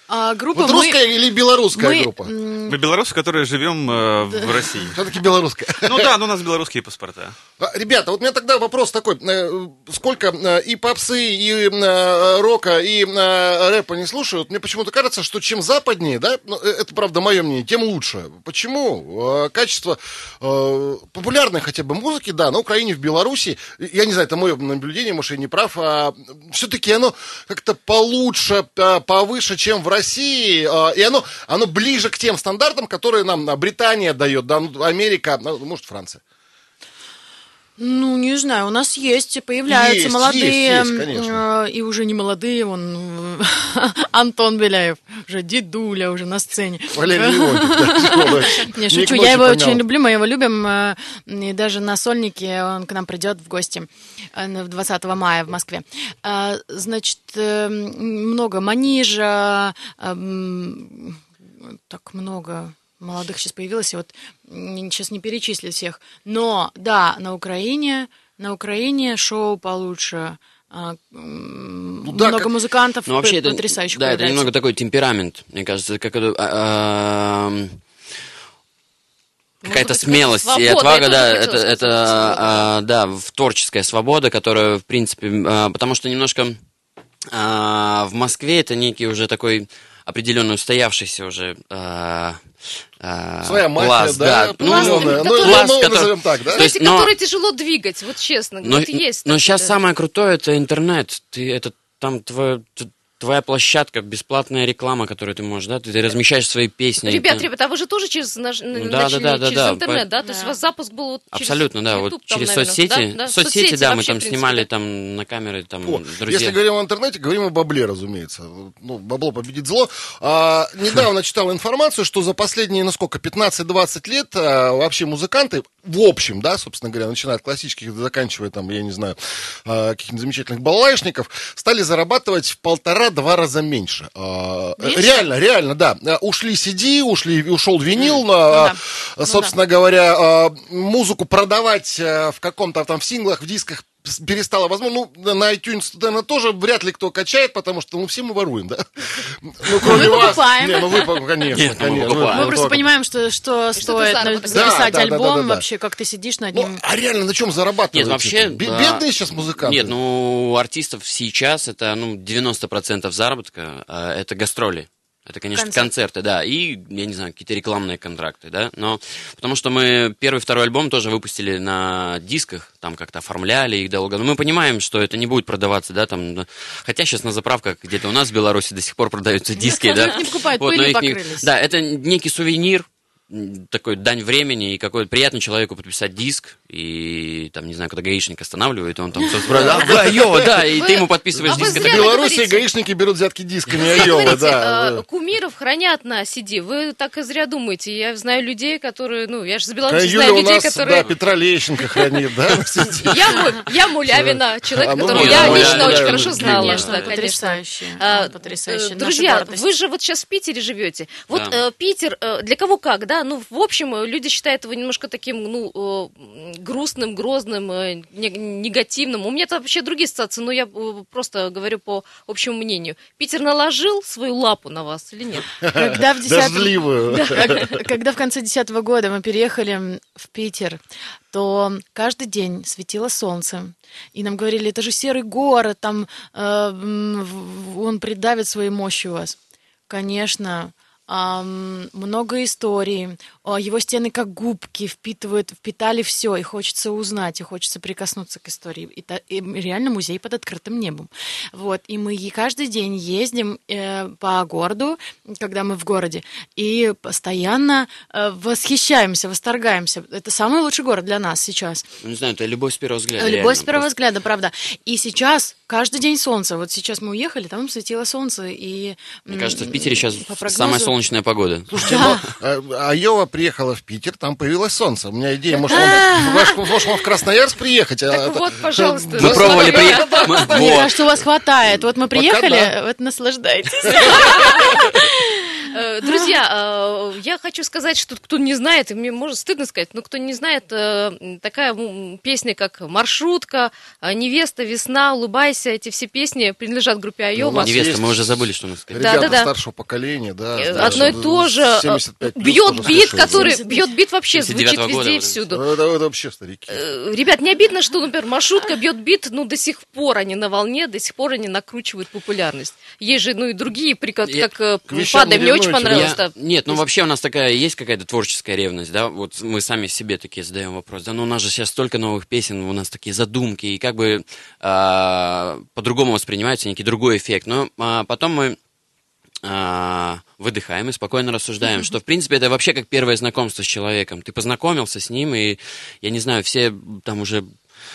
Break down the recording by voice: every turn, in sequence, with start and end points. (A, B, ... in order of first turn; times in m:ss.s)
0:00.1-0:01.1 A
0:00.5-0:02.3 B
0:01.7-0:02.8 A
0:02.7-0:05.0 C
0:04.9-0:06.2 B
0:05.8-0:07.4 C
0:07.6-0:36.2 B
0:37.8-1:14.5 A
0:39.7-0:41.4 B
0:46.9-0:49.8 B
1:12.0-1:12.5 B
1:13.1-1:17.8 D
1:19.6-1:22.7 E
1:19.6-1:26.6 D
1:27.3-1:37.1 D
1:33.4-1:36.7 B
1:34.6-1:35.7 E
1:36.5-1:39.7 E
1:38.6-1:47.4 D
1:47.0-1:54.7 E
1:48.7-1:50.0 D
1:50.2-1:50.6 A
1:51.3-1:56.6 D
1:55.8-2:32.9 B
2:14.8-2:15.2 A
2:17.9-2:18.2 D
2:18.4-2:19.5 A
2:29.8-2:31.1 A
2:31.5-2:32.8 D
2:32.3-2:36.8 A
2:33.8-2:34.8 E
2:34.5-2:35.6 B
2:36.5-2:40.0 B
2:37.9-3:12.1 D
2:45.6-2:45.9 A
2:59.6-3:01.5 A
3:09.2-3:09.9 A
3:09.4-3:10.7 B
3:10.7-3:12.7 E
3:11.4-3:15.0 B
3:13.8-3:21.1 E
3:19.9-3:23.6 B
3:23.0-3:45.5 E
3:24.2-3:27.0 B
3:25.1-3:27.2 D
3:26.3-3:29.6 A
3:31.3-3:31.6 D
3:45.6-3:47.8 B
3:45.8-3:59.4 A
3:59.9-4:21.8 A
4:22.0-4:23.9 D
4:23.2-4:30.9 A
4:29.3-4:32.2 D
4:31.7-4:41.0 B
4:31.8-4:32.2 A
4:35.6-4:36.8 A
4:38.1-4:40.7 E
4:39.2-4:41.0 D
4:40.3-4:46.3 A
4:41.7-4:42.7 B
4:43.8-4:44.6 B
4:44.0-4:44.8 E
4:45.7-4:57.8 E
4:57.4-5:03.5 B
4:57.6-4:59.4 D
4:59.0-4:59.5 E
5:00.6-5:05.6 E
5:00.6-5:01.2 D
5:02.8-5:03.8 A
5:04.3-5:05.4 D
5:05.5-5:06.8 B
5:06.7-5:16.8 E
5:14.9-5:16.2 B
5:15.9-5:28.6 D
5:29.4-5:37.6 D